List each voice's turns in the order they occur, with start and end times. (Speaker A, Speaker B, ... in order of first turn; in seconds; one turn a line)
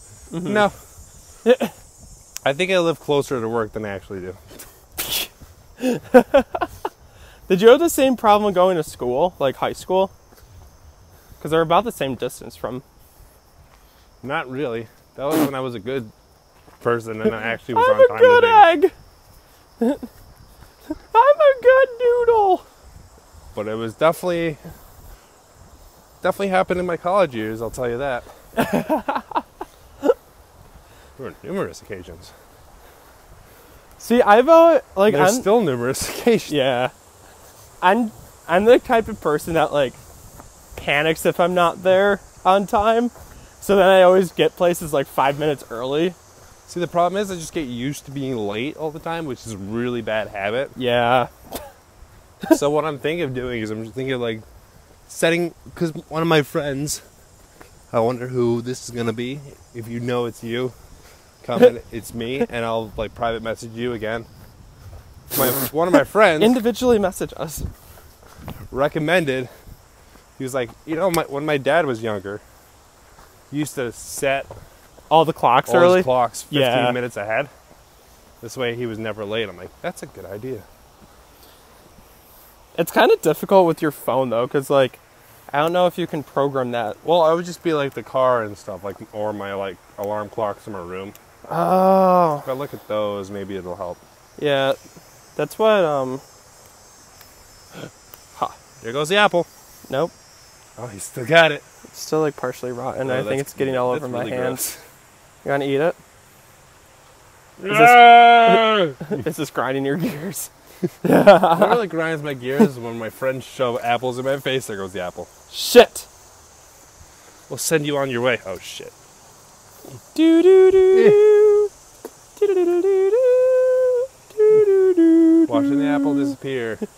Speaker A: 0.3-0.7
Speaker B: 0.4-0.8
Speaker A: 1.4-1.7
Speaker B: 2.4-4.4
Speaker A: 5.0-6.7
Speaker A: 7.5-10.1
Speaker A: 11.4-12.8
Speaker B: 14.2-16.1
Speaker B: 16.8-18.7
Speaker A: 17.7-18.9
Speaker A: 19.8-20.1
Speaker A: 21.1-22.6
Speaker B: 23.5-24.6
Speaker B: 26.2-28.3
Speaker A: 28.5-29.4
Speaker B: 31.2-32.3
Speaker A: 34.0-35.5
Speaker B: 35.1-36.5
Speaker A: 36.5-36.9
Speaker A: 37.8-40.0
Speaker A: 40.7-46.2
Speaker B: 46.7-50.8
Speaker A: 50.8-51.3
Speaker B: 52.5-54.4
Speaker B: 55.1-57.0
Speaker B: 57.9-60.7
Speaker B: 61.4-64.3
Speaker B: 65.3-66.6
Speaker A: 66.4-67.7
Speaker B: 68.7-69.5
Speaker B: 70.4-72.4
Speaker B: 73.5-74.5
Speaker A: 75.1-77.0
Speaker B: 75.7-77.5
Speaker B: 78.4-80.7
Speaker A: 82.7-87.0
Speaker B: 87.0-91.2
Speaker A: 91.5-92.5
Speaker B: 92.4-94.0
Speaker A: 94.4-94.8
Speaker A: 95.3-96.2
Speaker B: 98.8-99.5
Speaker A: 99.9-100.1
Speaker B: 100.8-101.6
Speaker A: 101.9-104.6
Speaker B: 103.0-104.8
Speaker A: 105.4-106.0
Speaker B: 107.6-109.2
Speaker A: 107.7-110.5
Speaker A: 111.0-111.8
Speaker B: 111.5-115.3
Speaker A: 115.5-116.1
Speaker B: 117.5-118.9
Speaker A: 120.1-121.7
Speaker B: 120.9-121.2
Speaker A: 122.3-126.4
Speaker B: 125.5-126.8